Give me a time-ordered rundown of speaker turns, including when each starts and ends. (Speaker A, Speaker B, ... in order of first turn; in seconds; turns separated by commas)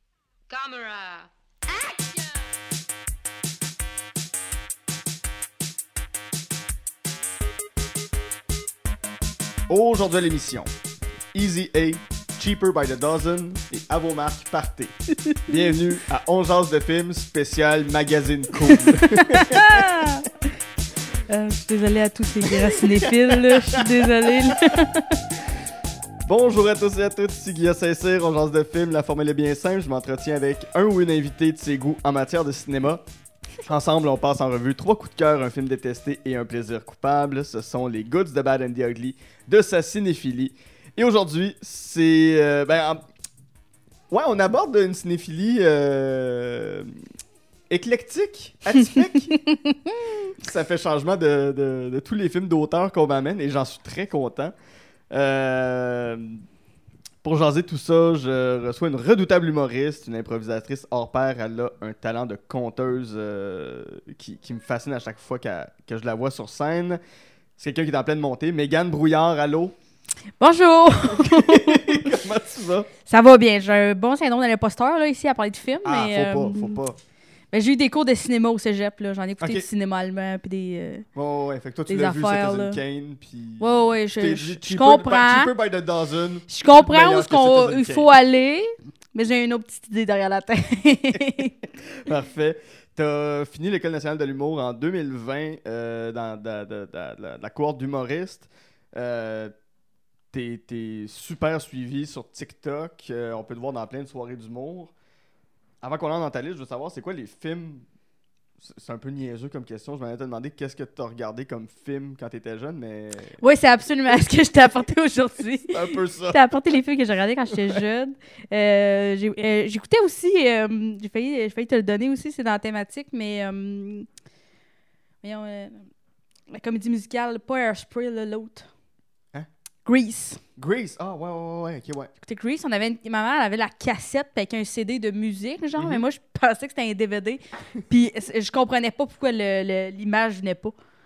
Speaker A: 0.5-2.5, Speaker B: 9.7-10.7, Speaker B: 11.3-20.1, Speaker C: 18.6-20.3, Speaker C: 21.3-25.1, Speaker B: 22.4-24.6, Speaker B: 26.2-33.0, Speaker B: 33.6-43.0, Speaker B: 44.1-47.0, Speaker B: 47.7-49.4, Speaker C: 49.4-50.0, Speaker B: 50.3-54.5, Speaker B: 55.1-56.4, Speaker B: 57.2-67.0, Speaker B: 67.6-69.8, Speaker C: 70.4-72.2, Speaker B: 71.0-72.9, Speaker C: 73.0-76.8, Speaker B: 75.8-77.0, Speaker C: 77.5-81.0, Speaker B: 79.4-79.7, Speaker B: 81.2-88.1, Speaker C: 81.9-82.8, Speaker C: 83.6-85.5, Speaker C: 86.5-91.6, Speaker B: 91.9-99.5, Speaker B: 100.3-104.9, Speaker B: 105.8-107.8, Speaker B: 108.6-113.4, Speaker C: 113.4-124.1, Speaker B: 115.7-116.8, Speaker B: 117.5-117.8, Speaker C: 125.2-125.9, Speaker C: 126.5-128.7, Speaker C: 129.8-130.4, Speaker B: 130.6-132.1, Speaker C: 132.2-140.8, Speaker B: 135.8-136.0